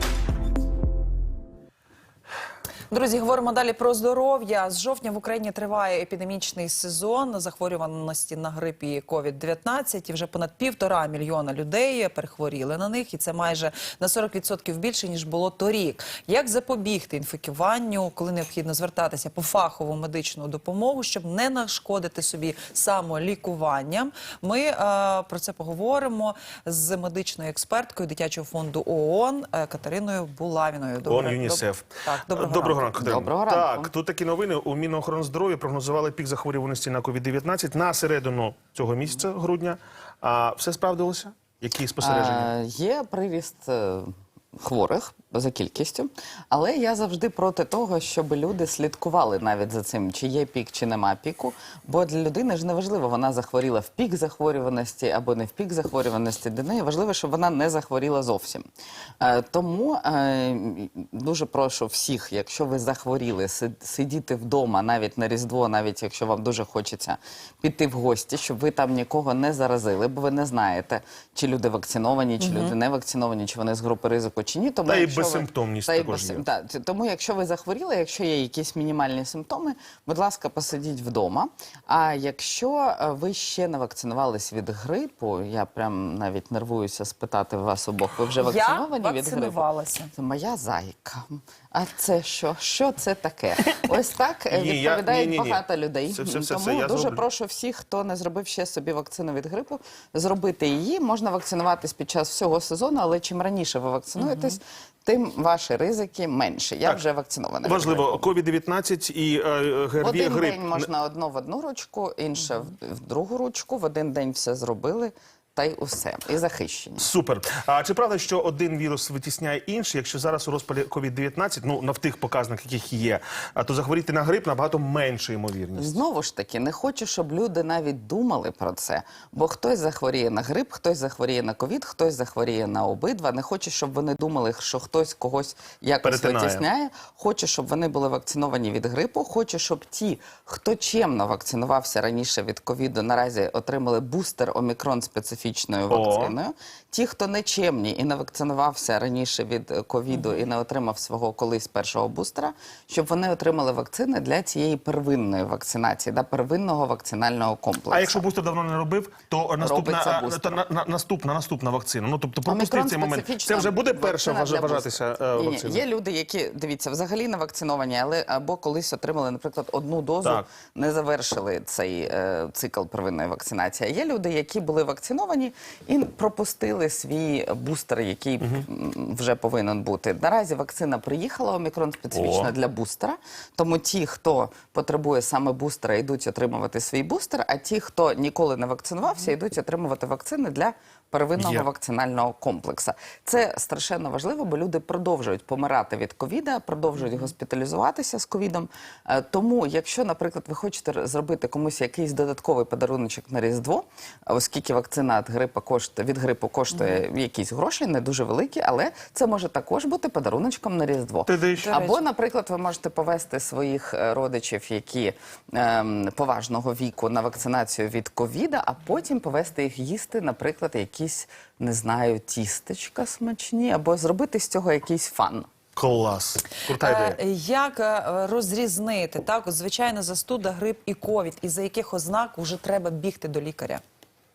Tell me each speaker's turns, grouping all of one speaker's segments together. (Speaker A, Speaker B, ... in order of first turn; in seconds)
Speaker A: 2.9-33.1, 72.4-72.7, 88.3-90.1, 104.2-104.5, 206.7-207.0, 211.6-212.0, 226.7-233.8
Speaker B: 31.1-42.5, 74.9-76.5, 94.5-97.2, 107.6-110.9, 117.0-126.0, 136.0-136.7, 145.9-146.4, 157.9-165.8, 182.1-182.5, 191.4-191.7, 211.3-211.7, 225.8-227.2
Speaker C: 33.0-33.9, 42.0-58.7, 59.2-108.3, 110.0-117.1, 125.8-158.2, 159.6-160.6, 162.5-225.5